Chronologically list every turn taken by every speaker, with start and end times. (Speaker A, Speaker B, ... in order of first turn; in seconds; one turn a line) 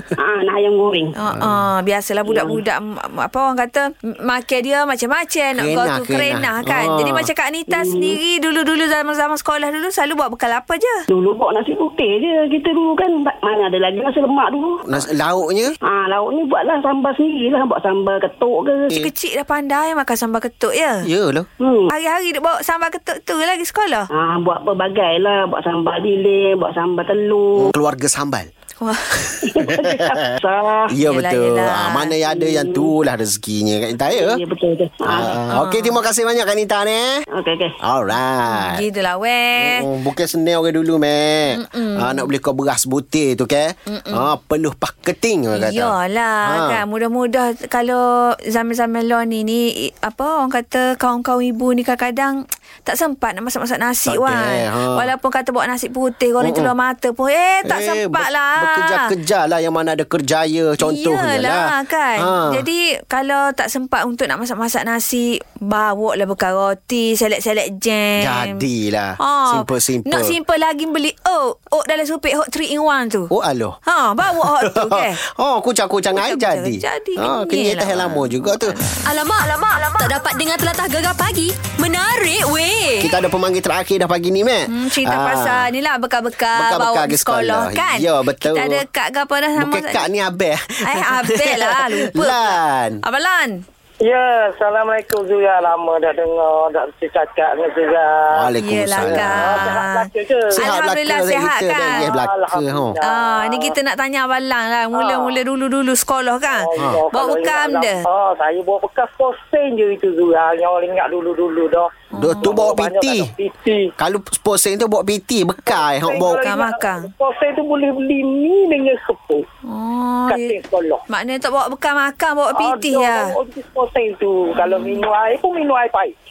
Speaker A: 0.2-1.1
Speaker B: 1.2-10.9
Speaker A: 2.2-2.6
Speaker C: 5.6-7.3
Speaker A: 7.7-8.2
Speaker A: 11.1-15.0
Speaker C: 14.9-15.7
Speaker A: 15.8-18.9
Speaker B: 18.9-21.1
Speaker C: 21.0-21.5
Speaker A: 21.6-21.9
Speaker B: 21.9-24.1
Speaker A: 24.1-27.7
Speaker C: 27.6-28.5
Speaker B: 28.8-29.3
Speaker C: 29.5-30.0
Speaker A: 29.5-30.9
Speaker C: 30.9-34.4
Speaker B: 31.0-32.1
Speaker A: 32.3-32.9
Speaker A: 34.1-35.4
Speaker C: 35.0-37.2
Speaker B: 35.5-36.0
Speaker A: 37.3-37.7
Speaker C: 37.8-38.9
Speaker B: 38.5-39.8
Speaker C: 39.6-46.8
Speaker B: 41.5-42.3
Speaker B: 43.9-44.3
Speaker B: 45.5-58.8
Speaker C: 54.0-55.1
Speaker C: 56.4-56.7
Speaker C: 57.6-61.6
Speaker B: 60.8-68.5
Speaker C: 62.2-62.6
Speaker C: 68.2-70.4
Speaker B: 69.2-73.3
Speaker C: 73.3-78.8
Speaker B: 73.8-75.2
Speaker B: 76.1-79.1
Speaker D: 79.0-83.1
Speaker C: 83.0-85.7
Speaker B: 84.7-90.1
Speaker C: 86.5-88.8
Speaker C: 89.5-93.0
Speaker B: 90.9-93.6
Speaker E: 94.0-98.3
Speaker C: 98.3-99.8
Speaker B: 98.6-102.1
Speaker E: 99.0-100.5
Speaker C: 100.6-103.0
Speaker E: 101.8-103.8
Speaker B: 103.0-108.0
Speaker E: 104.9-105.4
Speaker E: 106.4-111.9
Speaker C: 106.8-107.0
Speaker B: 112.1-112.5
Speaker C: 112.1-113.3
Speaker E: 112.4-113.9
Speaker C: 114.0-116.4
Speaker E: 115.7-119.5
Speaker B: 116.3-117.1
Speaker B: 119.7-120.5
Speaker E: 120.3-121.0
Speaker B: 121.1-123.4
Speaker E: 122.5-126.1
Speaker B: 124.7-125.0